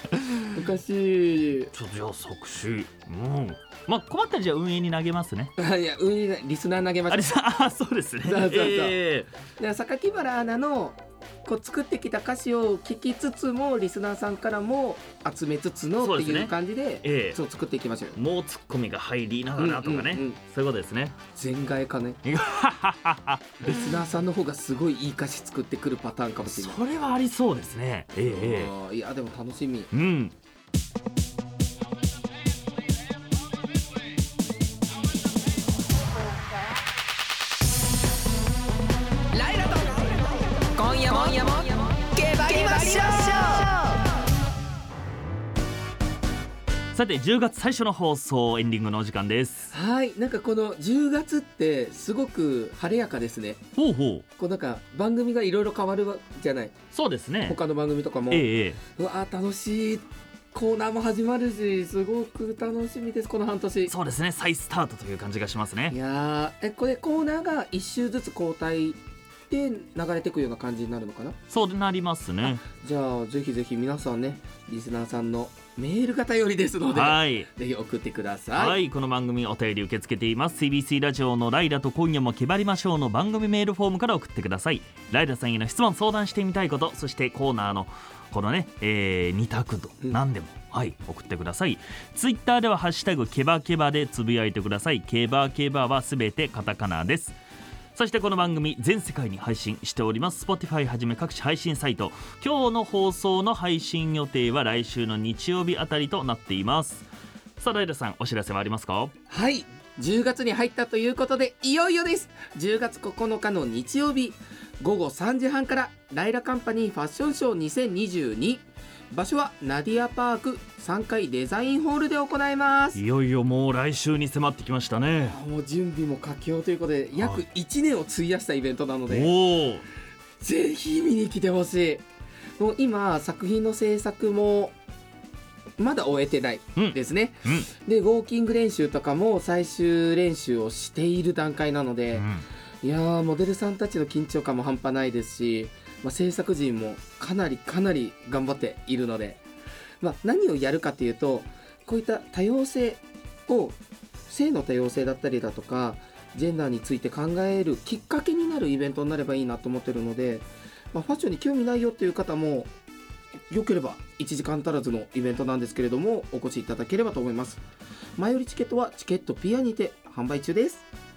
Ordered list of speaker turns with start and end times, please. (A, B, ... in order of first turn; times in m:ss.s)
0:00.1-0:00.6 A
0:00.5-0:01.7 B
0:01.7-0:05.5 A
0:05.6-0:07.4 B
0:07.1-0:09.3 A
0:08.2-0:09.0 B
0:09.6-0:18.2 B
0:16.0-0:17.4 A
0:18.2-0:21.2 A
0:19.6-0:20.4 B
0:21.4-0:22.2 B
0:22.2-0:23.8 A
0:23.6-0:26.8 B
0:26.4-0:28.7 A
0:28.2-0:29.9 B
0:29.9-0:30.3 A
0:39.3-0:40.2 C
0:40.7-0:43.9 C
0:42.4-0:43.9 B
0:46.9-0:49.7 A
0:49.7-0:53.6 B
0:53.8-0:54.2 A
0:54.4-0:56.8 B
0:56.9-0:57.6 A
0:57.4-1:03.9 B
0:58.3-0:58.8 A
1:03.9-1:06.0 A
1:05.9-1:09.0 B
1:09.5-1:11.4 B
1:11.5-1:12.6 A
1:12.7-1:18.8 B
1:16.9-1:17.5 A
1:18.6-1:37.4 A
1:37.9-1:47.1 A
1:47.6-1:49.1 A
1:49.3-2:03.0 B
2:02.9-2:05.4 A
2:05.3-2:09.3 B
2:07.2-2:07.4 A
2:09.1-2:09.8 A
2:10.4-2:12.0 B
2:12.6-2:14.7 B
2:15.8-2:22.3 B
2:16.8-2:17.7 A
2:22.2-2:22.4 A
2:22.8-2:29.4 B
2:30.0-2:42.7 B
2:43.5-2:47.6 B
2:48.2-2:50.9 B